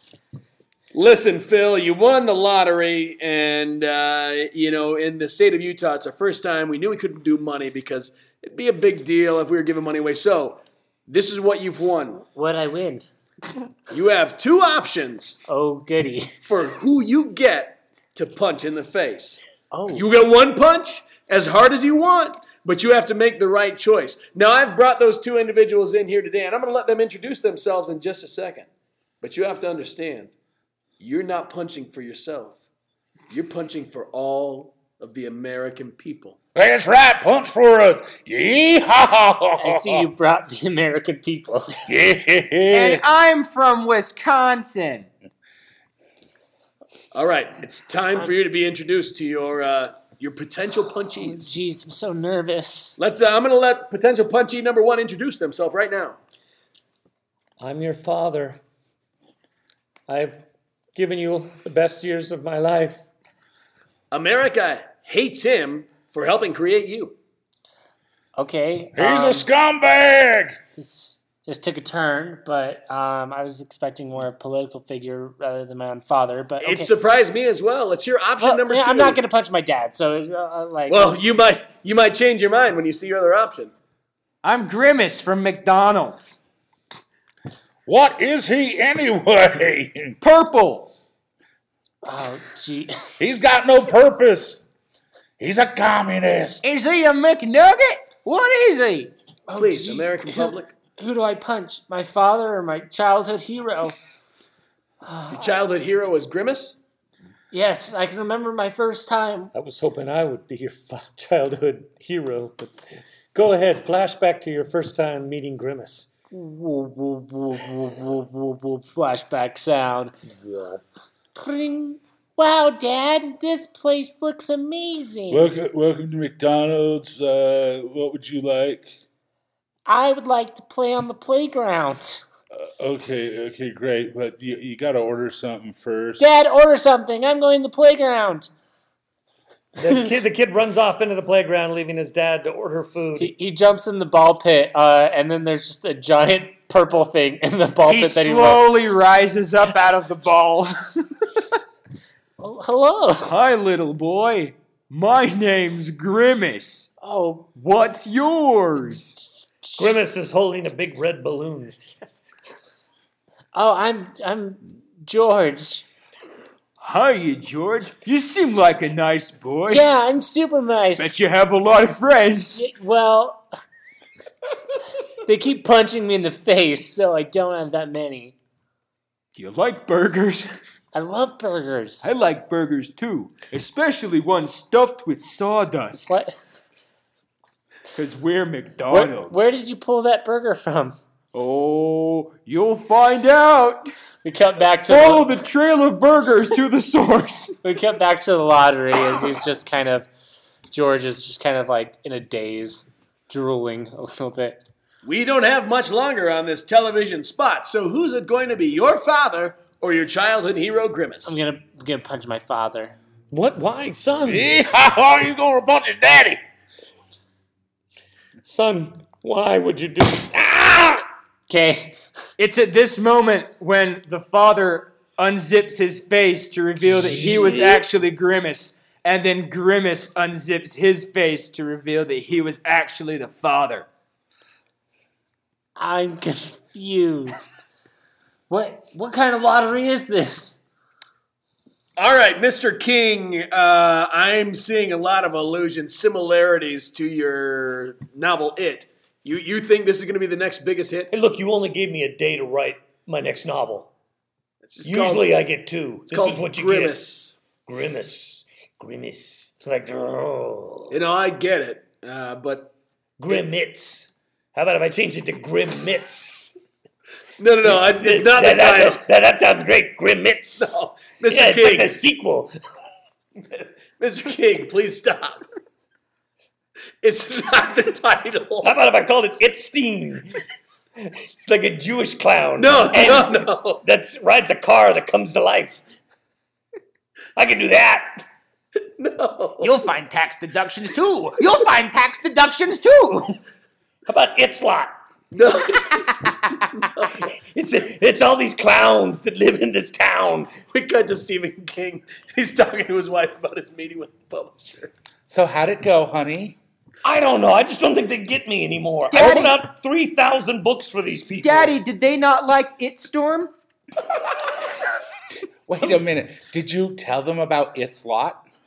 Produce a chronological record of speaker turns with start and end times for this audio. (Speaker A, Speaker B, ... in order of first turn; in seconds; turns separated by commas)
Speaker A: 0.9-12.2, Speaker B: 12.3-13.1, Speaker A: 13.9-15.4, Speaker B: 15.5-16.3, Speaker A: 16.4-28.7, Speaker B: 19.7-20.1, Speaker A: 29.2-30.3, Speaker A: 31.0-32.6, Speaker A: 33.3-36.4, Speaker C: 36.5-40.1, Speaker B: 39.6-41.8, Speaker C: 41.8-43.0, Speaker D: 42.7-45.1, Speaker A: 47.1-51.5, Speaker B: 51.1-53.0, Speaker A: 53.0-56.2, Speaker E: 57.6-58.6, Speaker E: 60.1-63.0, Speaker A: 64.1-67.2, Speaker B: 68.3-69.5, Speaker C: 68.9-70.6, Speaker B: 70.8-76.9, Speaker A: 76.6-79.2, Speaker B: 78.4-81.2, Speaker A: 80.9-83.7, Speaker D: 84.4-86.4, Speaker C: 87.8-90.2, Speaker D: 90.2-90.9, Speaker B: 92.0-92.9, Speaker C: 93.2-94.6, Speaker C: 95.4-96.6, Speaker D: 96.6-99.1, Speaker B: 99.5-103.9, Speaker A: 99.5-100.7, Speaker B: 105.0-105.5, Speaker A: 105.3-106.8, Speaker B: 107.5-109.5, Speaker E: 109.5-112.7, Speaker E: 113.3-116.1, Speaker B: 116.3-120.1, Speaker E: 120.4-120.8, Speaker B: 121.3-125.5, Speaker C: 125.3-128.9, Speaker B: 129.8-132.2, Speaker C: 132.5-136.3, Speaker B: 136.2-138.5, Speaker E: 139.8-143.3, Speaker B: 143.2-148.7, Speaker D: 147.8-151.3, Speaker B: 152.4-153.3, Speaker D: 153.2-156.9, Speaker B: 157.0-157.5, Speaker D: 157.5-159.1, Speaker B: 159.6-159.9, Speaker E: 159.8-161.9, Speaker B: 163.5-165.8, Speaker D: 166.8-169.8, Speaker B: 169.7-171.2, Speaker D: 171.0-172.6, Speaker B: 172.5-173.4, Speaker B: 175.2-178.3, Speaker D: 179.3-180.5, Speaker B: 180.9-182.1, Speaker D: 182.0-186.1, Speaker B: 186.0-186.3, Speaker D: 187.9-189.5, Speaker B: 188.9-191.0, Speaker D: 191.3-193.9, Speaker B: 194.2-195.3, Speaker D: 194.9-197.6, Speaker B: 197.6-200.1, Speaker B: 200.7-204.6, Speaker A: 205.0-211.3, Speaker B: 211.2-212.9, Speaker E: 213.3-214.5, Speaker C: 214.2-216.4, Speaker E: 218.4-221.0, Speaker B: 221.5-222.0, Speaker D: 222.4-233.9, Speaker E: 226.9-227.9, Speaker B: 235.8-237.6, Speaker B: 238.5-240.6, Speaker A: 242.0-251.1, Speaker E: 251.1-253.9, Speaker A: 254.6-255.3, Speaker E: 254.8-257.0, Speaker A: 256.1-257.3, Speaker E: 257.6-260.9, Speaker A: 260.9-262.7, Speaker E: 263.2-266.6, Speaker A: 267.4-269.0, Speaker E: 267.6-272.5, Speaker A: 270.6-272.0, Speaker A: 273.4-275.4, Speaker A: 277.0-278.7, Speaker E: 278.6-280.4, Speaker E: 281.0-285.8, Speaker A: 282.6-283.8, Speaker E: 287.4-288.2, Speaker A: 288.8-289.9, Speaker D: 289.6-293.4, Speaker E: 294.1-294.9, Speaker A: 295.3-297.3, Speaker E: 297.1-300.6, Speaker A: 300.6-304.9, Speaker C: 305.3-306.6, Speaker E: 307.0-311.7, Speaker D: 309.1-309.6, Speaker D: 311.4-313.5, Speaker C: 315.3-318.4